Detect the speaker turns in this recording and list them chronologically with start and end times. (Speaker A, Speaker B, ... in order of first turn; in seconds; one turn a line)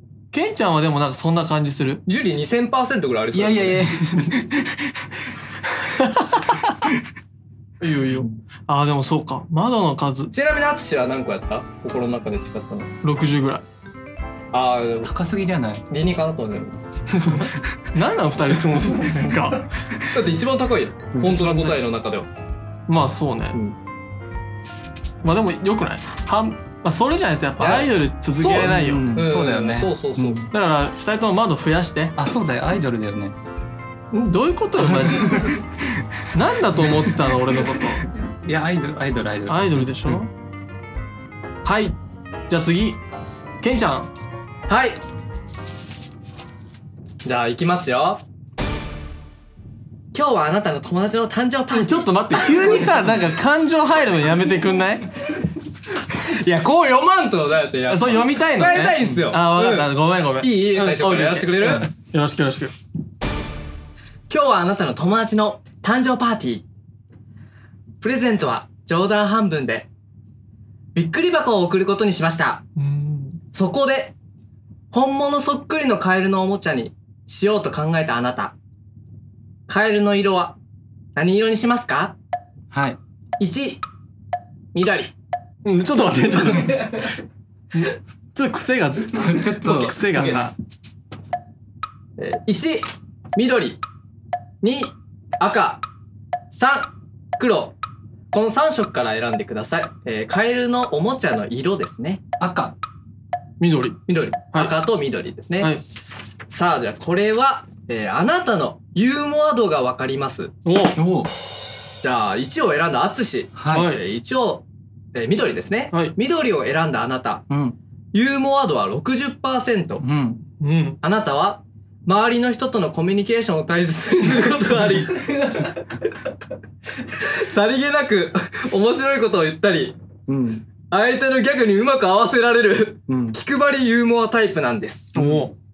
Speaker A: 0.3-2.0
Speaker B: 2.0-3.9
Speaker C: 3.3-5.1
Speaker A: 5.8-6.6
Speaker A: 7.8-10.3
Speaker B: 10.3-12.9
Speaker A: 13.0-13.6
Speaker B: 14.5-15.1
Speaker C: 15.0-15.8
Speaker B: 15.9-16.8
Speaker A: 17.1-19.7
Speaker B: 20.1-22.3
Speaker A: 21.2-21.8
Speaker A: 22.9-23.6
Speaker A: 25.2-29.1
Speaker B: 27.6-30.5
Speaker C: 28.5-30.5
Speaker A: 30.5-32.1
Speaker C: 32.2-33.4
Speaker A: 34.1-35.6
Speaker C: 34.8-36.0
Speaker A: 36.3-38.1
Speaker C: 36.8-37.1
Speaker C: 37.8-40.2
Speaker A: 39.5-40.3
Speaker A: 41.6-42.0
Speaker A: 42.5-43.0
Speaker A: 43.6-44.1
Speaker B: 44.7-45.0
Speaker B: 47.2-48.2
Speaker B: 50.1-53.1
Speaker A: 51.7-55.1
Speaker B: 56.1-61.9
Speaker A: 57.9-62.7
Speaker B: 64.3-66.7
Speaker B: 68.0-69.9
Speaker B: 70.9-72.6
Speaker A: 72.8-73.4
Speaker B: 73.5-74.1
Speaker B: 74.9-78.5
Speaker B: 79.7-80.6
Speaker B: 81.2-82.1
Speaker C: 82.7-83.0
Speaker B: 83.4-83.8
Speaker B: 84.7-85.1
Speaker A: 85.6-87.2
Speaker A: 87.7-90.5
Speaker C: 89.1-90.5
Speaker B: 92.2-93.8
Speaker B: 94.6-95.8
Speaker B: 96.5-97.7
Speaker B: 98.3-102.2
Speaker C: 102.4-102.8
Speaker A: 103.6-104.7
Speaker B: 104.1-105.7
Speaker B: 106.5-110.5
Speaker A: 110.6-111.0
Speaker C: 110.9-111.3
Speaker B: 112.0-117.4
Speaker C: 113.5-113.9
Speaker A: 113.7-114.0
Speaker C: 117.5-117.8
Speaker B: 118.1-120.0
Speaker C: 120.0-120.4
Speaker A: 120.6-121.0
Speaker B: 121.0-125.4
Speaker A: 124.2-125.8
Speaker B: 127.1-130.0
Speaker C: 130.3-130.6
Speaker B: 130.9-135.2
Speaker C: 133.1-133.4
Speaker A: 135.1-135.5
Speaker C: 135.2-135.5